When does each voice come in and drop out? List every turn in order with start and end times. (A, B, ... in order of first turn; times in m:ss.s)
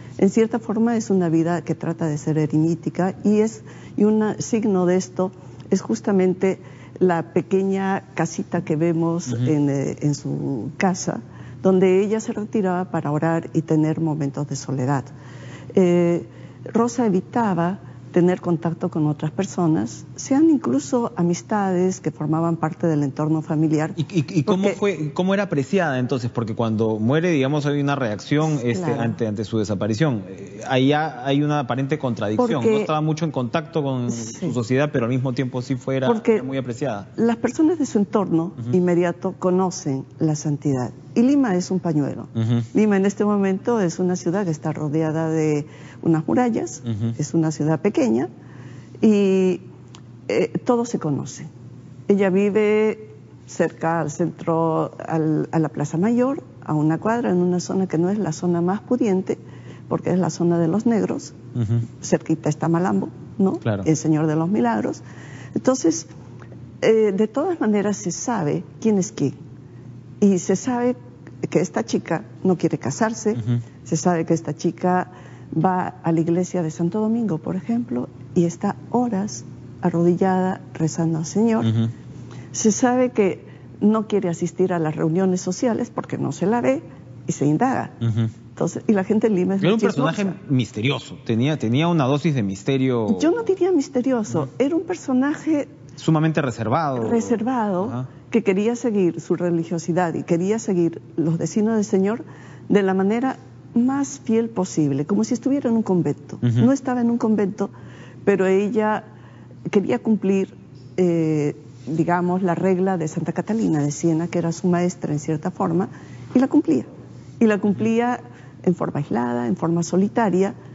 0:00.2-0:15.1 A
0:15.7-0:24.8 A
0:24.0-0:37.1 B
0:28.5-0:29.2 A
0:32.4-0:32.9 A
0:34.2-0:34.5 A
0:36.0-0:36.4 A
0:37.2-0:48.3 A
0:42.4-0:42.7 B
0:46.9-0:47.1 B
0:49.0-0:49.6 A
0:50.3-0:51.5 A
0:52.1-1:01.4 A
1:01.5-1:01.9 B
1:02.0-1:05.0 A
1:05.6-1:06.1 A
1:06.8-1:09.4 A
1:10.2-1:21.7 A
1:21.6-1:21.9 B
1:22.5-1:27.9 A
1:28.0-1:28.3 B
1:28.6-1:30.4 A
1:29.6-1:33.4 B
1:33.1-1:35.7 A
1:36.0-1:38.0 B
1:36.9-1:47.7 A
1:46.4-1:46.7 B
1:48.2-1:49.0 A
1:49.7-1:56.9 A
1:57.4-2:00.5 A